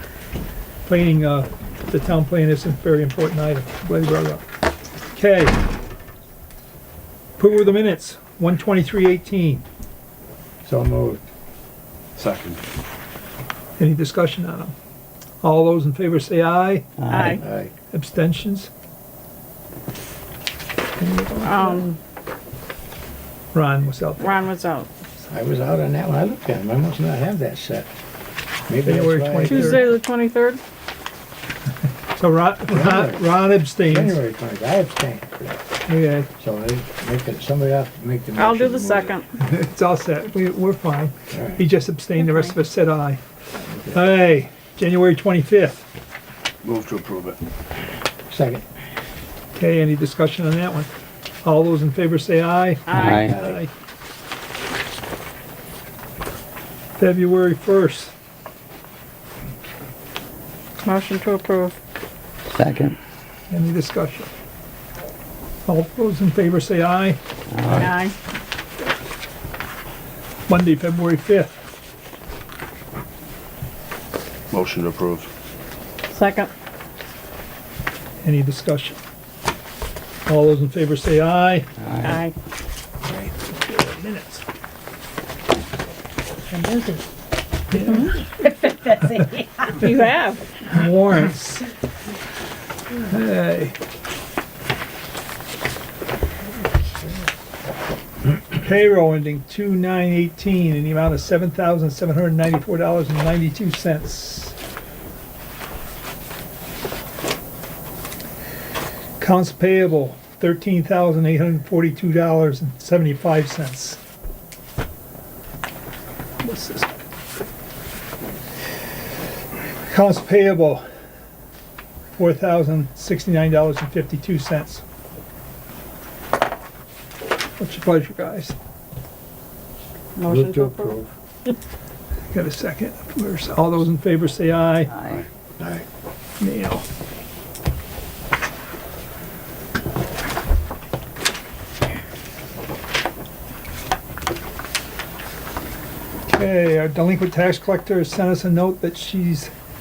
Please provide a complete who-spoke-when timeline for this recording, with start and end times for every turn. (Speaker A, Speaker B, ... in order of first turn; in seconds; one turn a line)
Speaker A: 0.9-4.4
Speaker A: 5.1-5.6
Speaker A: 7.4-9.6
Speaker B: 10.6-11.2
Speaker C: 12.2-12.6
Speaker A: 13.8-14.7
Speaker A: 15.4-17.0
Speaker D: 17.0-17.4
Speaker E: 17.1-17.4
Speaker B: 17.3-17.7
Speaker A: 17.9-18.7
Speaker A: 21.0-21.9
Speaker E: 21.4-22.0
Speaker A: 23.5-24.3
Speaker E: 24.2-24.9
Speaker B: 25.3-27.9
Speaker B: 28.7-29.9
Speaker A: 28.8-29.9
Speaker E: 29.4-30.6
Speaker A: 32.1-34.2
Speaker B: 32.6-35.6
Speaker A: 35.9-36.3
Speaker B: 36.4-39.1
Speaker E: 38.4-39.3
Speaker A: 39.4-43.2
Speaker B: 41.3-41.6
Speaker E: 42.1-42.5
Speaker B: 43.6-44.2
Speaker A: 43.9-45.8
Speaker C: 46.6-47.4
Speaker B: 48.3-48.6
Speaker A: 49.6-50.9
Speaker A: 51.4-53.7
Speaker E: 52.9-53.2
Speaker D: 52.9-53.4
Speaker B: 53.1-53.6
Speaker A: 57.0-58.1
Speaker E: 60.8-61.7
Speaker D: 62.5-63.0
Speaker A: 63.5-64.3
Speaker A: 65.7-67.2
Speaker D: 67.5-67.9
Speaker C: 67.6-67.9
Speaker E: 67.8-68.1
Speaker A: 70.5-71.6
Speaker C: 74.5-75.3
Speaker E: 76.1-76.5
Speaker A: 78.2-79.0
Speaker A: 80.3-81.7
Speaker D: 81.8-82.2
Speaker E: 82.0-82.3
Speaker B: 83.1-83.3
Speaker A: 83.5-84.4
Speaker B: 86.5-87.0
Speaker A: 87.7-88.1
Speaker E: 87.7-88.2
Speaker B: 88.7-89.3
Speaker E: 89.7-90.6
Speaker A: 90.6-91.7
Speaker A: 93.0-93.8
Speaker A: 98.6-104.5
Speaker A: 109.2-114.0
Speaker A: 116.4-116.9
Speaker A: 119.9-120.8
Speaker A: 122.2-124.8
Speaker A: 127.6-128.6
Speaker E: 130.2-131.0
Speaker B: 130.2-131.1
Speaker A: 132.3-134.9
Speaker D: 134.9-135.2
Speaker B: 135.6-135.8
Speaker A: 136.4-136.8
Speaker A: 146.3-149.5